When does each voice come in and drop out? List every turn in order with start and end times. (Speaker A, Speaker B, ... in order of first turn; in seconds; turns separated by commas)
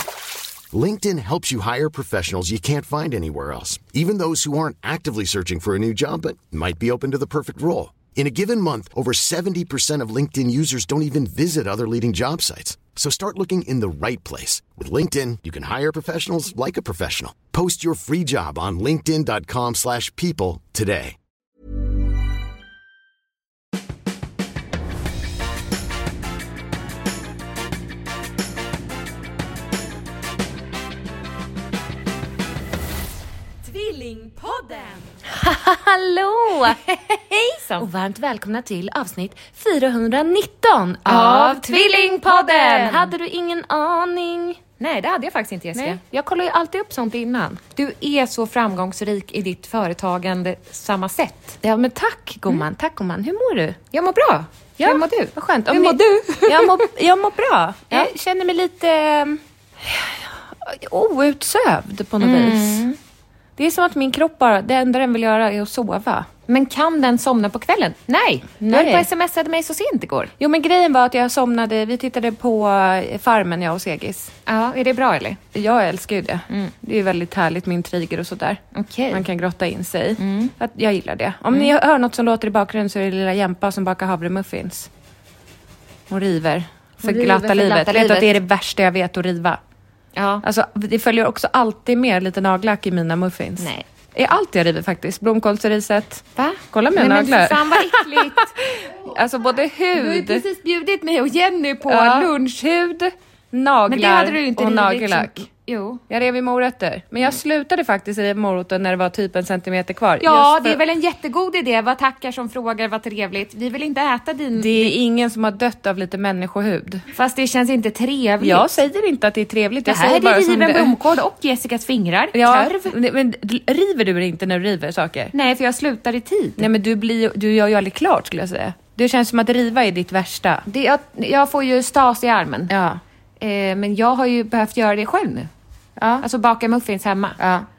Speaker A: 0.7-21.2, Speaker B: 33.6-36.8, Speaker C: 36.4-37.9, Speaker B: 37.8-44.6, Speaker C: 41.0-43.1, Speaker C: 44.8-46.0, Speaker B: 45.8-47.6, Speaker C: 47.8-51.6, Speaker B: 51.6-53.8, Speaker C: 53.9-56.8, Speaker B: 54.8-62.9, Speaker C: 62.2-63.0, Speaker B: 63.6-66.3, Speaker C: 66.5-70.3, Speaker B: 68.7-69.1, Speaker B: 70.4-74.3, Speaker C: 74.5-75.4, Speaker B: 75.5-84.9, Speaker C: 78.7-79.2, Speaker C: 80.2-80.5, Speaker B: 86.1-89.6, Speaker C: 87.0-88.4, Speaker C: 90.2-90.5, Speaker B: 90.4-100.5, Speaker C: 93.6-93.8, Speaker C: 96.4-98.9, Speaker C: 99.9-103.1, Speaker B: 101.9-102.3, Speaker B: 103.5-105.5, Speaker C: 103.9-106.0, Speaker B: 106.1-110.8, Speaker C: 110.2-114.9, Speaker B: 114.5-117.0, Speaker C: 117.1-118.7, Speaker B: 118.4-121.0, Speaker C: 119.8-123.0, Speaker B: 122.3-125.3, Speaker C: 125.3-126.7, Speaker B: 126.6-130.7, Speaker C: 130.7-132.7, Speaker B: 132.7-133.0, Speaker C: 133.4-135.5, Speaker B: 136.0-136.2, Speaker C: 136.2-137.4, Speaker B: 137.4-137.7